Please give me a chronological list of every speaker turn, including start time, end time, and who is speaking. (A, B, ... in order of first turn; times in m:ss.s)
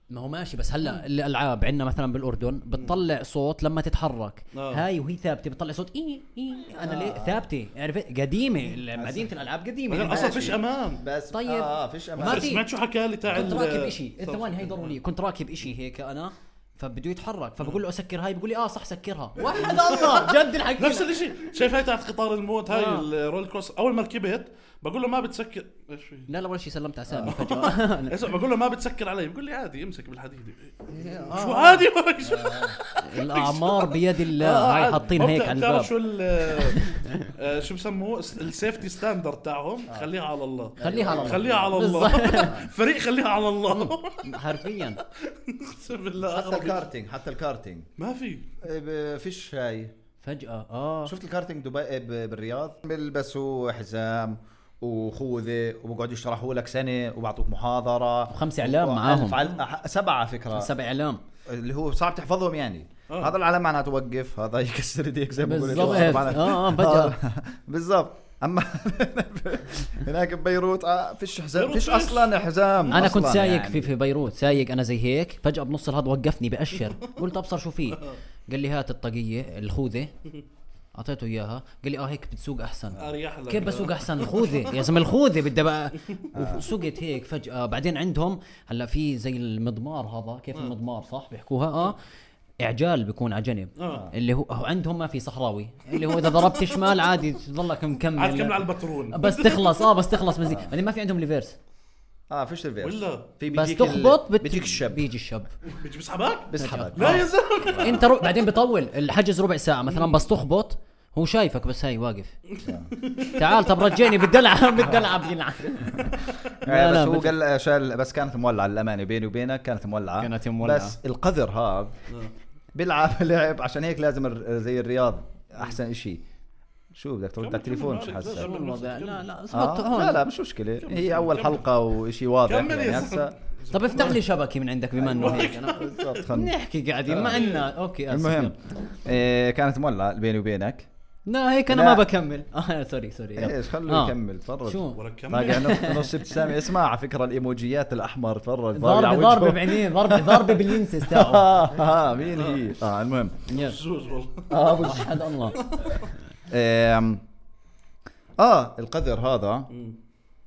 0:00.1-0:10.4 A
0:04.5-0:04.8 B
0:06.8-0:07.5 C
0:08.9-0:09.3 C
0:09.9-0:11.0 B
0:10.0-0:12.6 C
0:11.3-0:12.7 A
0:12.2-0:15.0 B
0:13.3-0:21.1 A
0:19.4-0:26.3 B
0:22.7-0:23.1 A
0:26.3-0:28.3 A
0:27.1-0:27.3 C
0:27.3-0:44.3 B
0:30.9-0:31.8 A
0:31.0-0:31.4 C
0:32.2-0:32.8 C
0:33.0-0:35.9 A
0:36.4-0:37.3 A
0:40.8-0:42.7 C
0:40.8-0:42.6 A
0:43.7-0:45.0 A
0:45.1-0:46.8 B
0:46.2-0:47.9 C
0:48.0-0:48.5 B
0:48.6-0:49.9 C
0:50.2-0:51.1 A
0:51.0-1:00.7 C
0:58.3-0:59.5 A
1:00.5-1:01.2 A
1:01.5-1:13.9 C
1:03.1-1:03.4 B
1:05.4-1:07.2 A
1:11.6-1:13.0 B
1:12.9-1:20.1 A
1:20.9-1:32.0 A
1:22.9-1:24.8 B
1:26.3-1:26.7 C
1:32.6-1:41.6 A
1:33.8-1:34.1 B
1:35.9-1:37.0 B
1:38.2-1:39.9 B
1:40.4-1:40.7 C
1:42.3-1:45.1 C
1:42.8-1:43.2 B
1:43.5-1:45.5 A
1:45.7-1:48.3 B
1:46.5-1:48.1 C
1:46.6-1:52.4 A
1:52.5-1:54.2 B
1:52.6-1:52.9 C
1:53.3-1:57.4 A
1:54.8-1:55.1 C
1:55.9-2:01.9 C
2:00.2-2:01.0 A
2:02.7-2:06.2 C
2:06.9-2:08.5 C
2:07.4-2:09.2 B
2:08.3-2:10.2 A
2:09.5-2:13.3 C
2:10.8-2:11.7 B
2:12.4-2:14.2 B
2:13.7-2:18.5 A
2:15.0-2:16.2 B
2:15.2-2:16.5 C
2:17.1-2:17.5 C
2:17.2-2:17.7 B
2:18.1-2:20.9 C
2:21.3-2:26.5 A
2:21.7-2:22.0 C
2:23.4-2:33.4 C
2:24.9-2:25.7 B
2:28.7-2:31.7 A
2:32.3-2:32.6 B
2:33.5-2:33.8 A
2:33.5-2:34.5 B
2:34.5-2:35.2 C
2:34.6-2:35.9 A
2:35.5-2:36.1 B
2:36.5-2:37.2 C
2:38.4-2:39.7 C
2:39.7-2:40.0 B